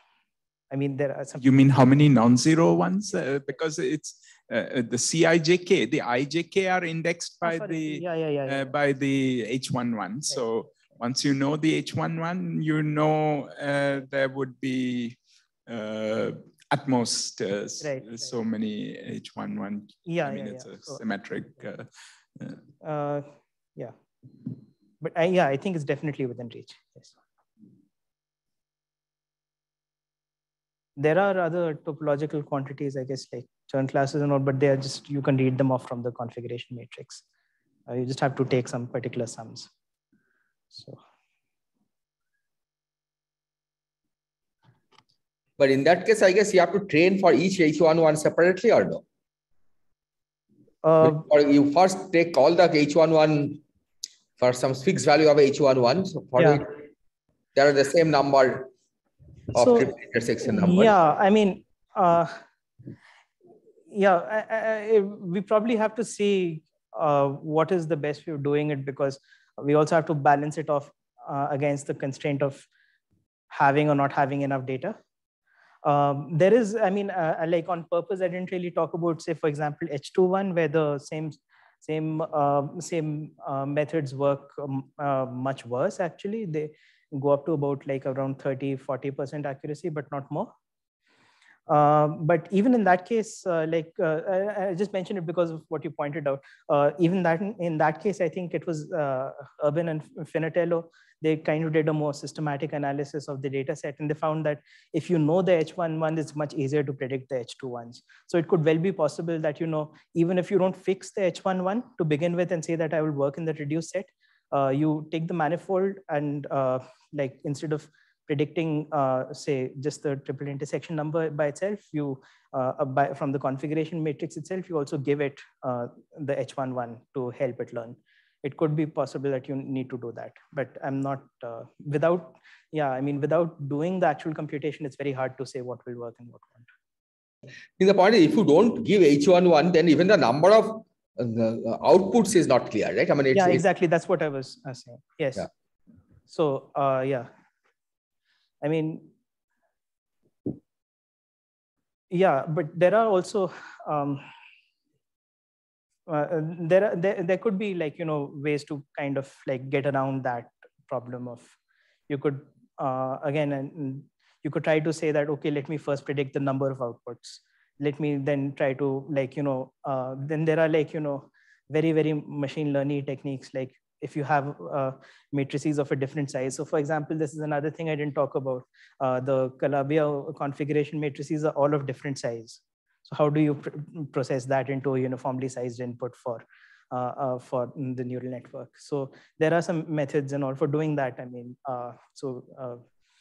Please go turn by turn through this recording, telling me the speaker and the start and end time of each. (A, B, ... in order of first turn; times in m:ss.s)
0:00.7-0:01.4 A
0:01.4-0:15.2 B
0:07.4-0:08.7 A
0:15.7-0:21.9 B
0:17.8-0:18.3 A
0:20.1-0:21.0 A
0:22.8-0:24.0 A
0:25.0-0:27.1 A
0:31.0-0:37.2 A
0:37.9-0:39.7 A
0:40.7-0:41.0 A
0:45.6-0:49.0 C
0:50.8-0:51.2 A
0:51.0-0:53.6 C
0:54.4-0:56.8 C
0:57.6-0:58.7 C
0:59.6-1:00.9 C
0:59.6-1:02.4 A
1:03.9-1:12.7 A
1:13.5-1:15.0 A
1:15.8-1:30.5 A
1:31.7-2:16.7 A
2:17.8-2:23.6 C
2:23.3-2:25.5 A
2:26.3-2:27.3 A
2:28.6-2:29.1 A
2:32.1-2:34.3 A
2:36.1-2:41.6 A
2:42.1-3:12.8 A